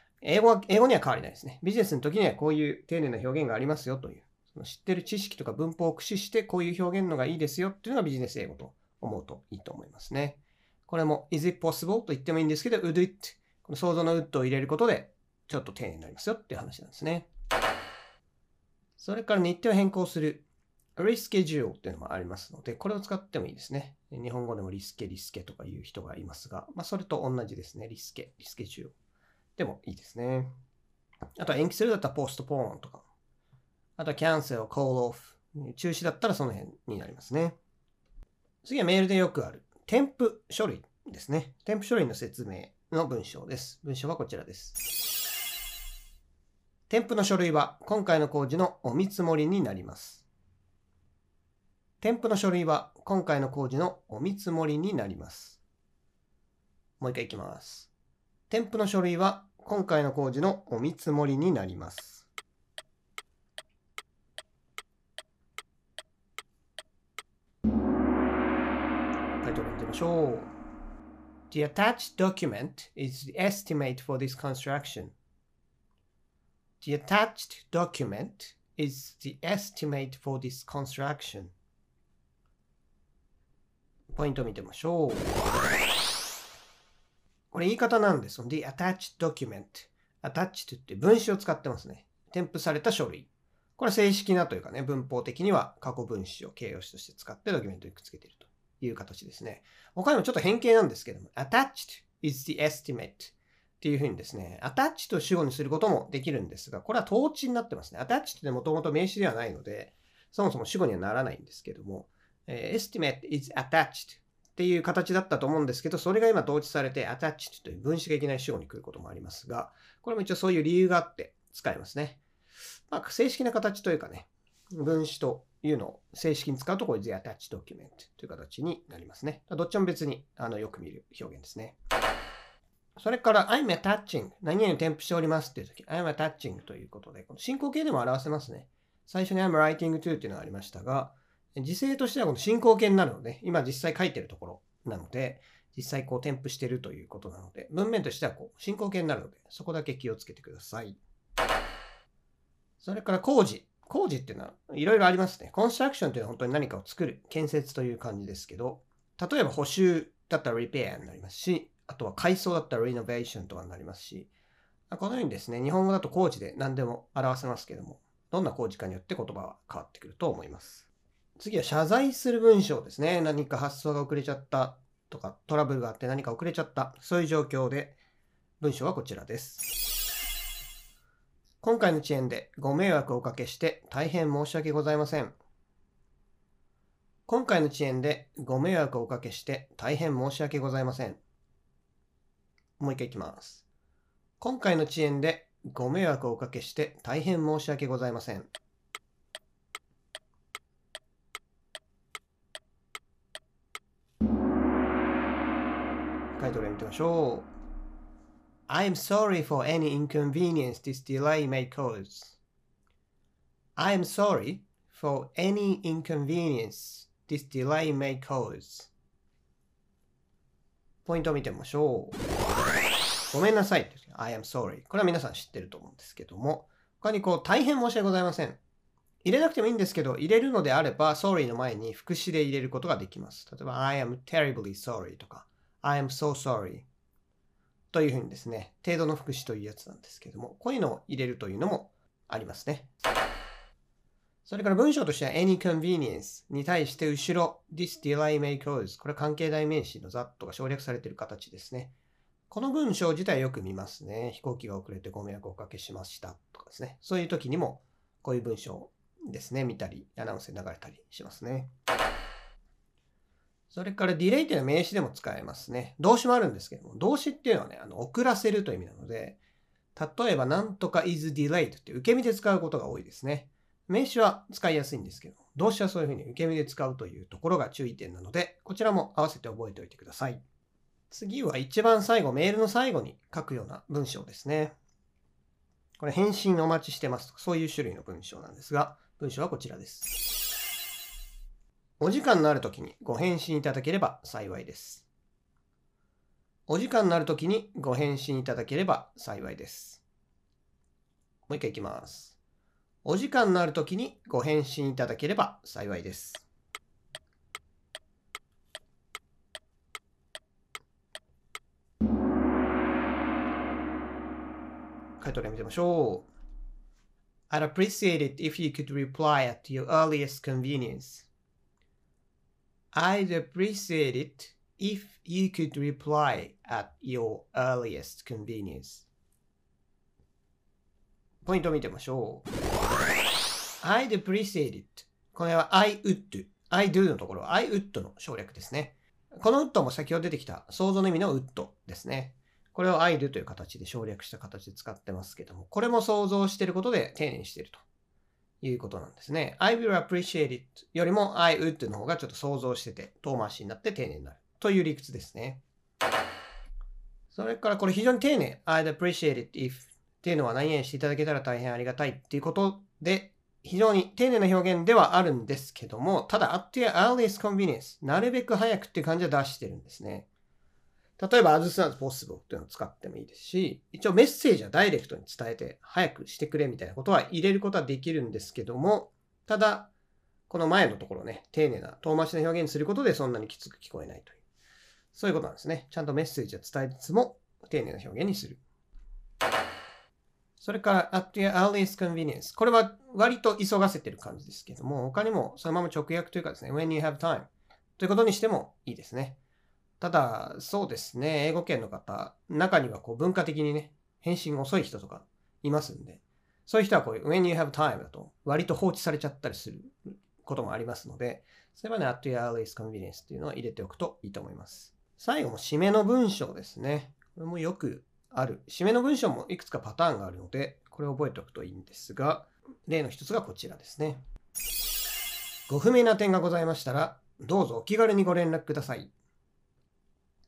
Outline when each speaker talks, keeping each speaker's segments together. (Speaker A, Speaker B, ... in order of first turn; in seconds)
Speaker A: 0.2-17.3, 19.0-28.9, 29.6-30.5, 31.4-33.0, 34.0-37.6, 38.6-44.8, 46.9-50.3, 52.0-55.6, 57.0-57.9, 58.5-62.3, 69.4-70.5, 71.5-75.1, 76.8-81.5, 84.1-85.3, 87.5-122.2, 122.9-131.8, 133.0-151.0, 152.8-164.3, 164.9-170.9, 171.4-178.0, 178.6-179.6, 181.6-185.4, 187.3-191.2, 192.8-193.6, 194.4-198.5, 206.3-207.5, 208.7-212.4, 213.8-218.9, 221.0-222.2, 223.3-228.6, 229.2-236.9, 237.9-242.9, 244.4-251.9, 252.5-261.7, 263.7-269.4, 269.9-280.4, 281.1-284.8, 286.0-290.1, 292.0-295.1, 296.7-300.0, 301.5-302.4, 303.0-306.5, 315.2-316.3, 317.5-321.3, 322.9-329.1, 331.4-332.5, 333.8-347.8, 348.6-355.6, 357.3-370.3, 371.2-379.9, 380.5-384.4, 385.1-388.6, 390.6-399.4, 400.0-424.2, 425.7-429.1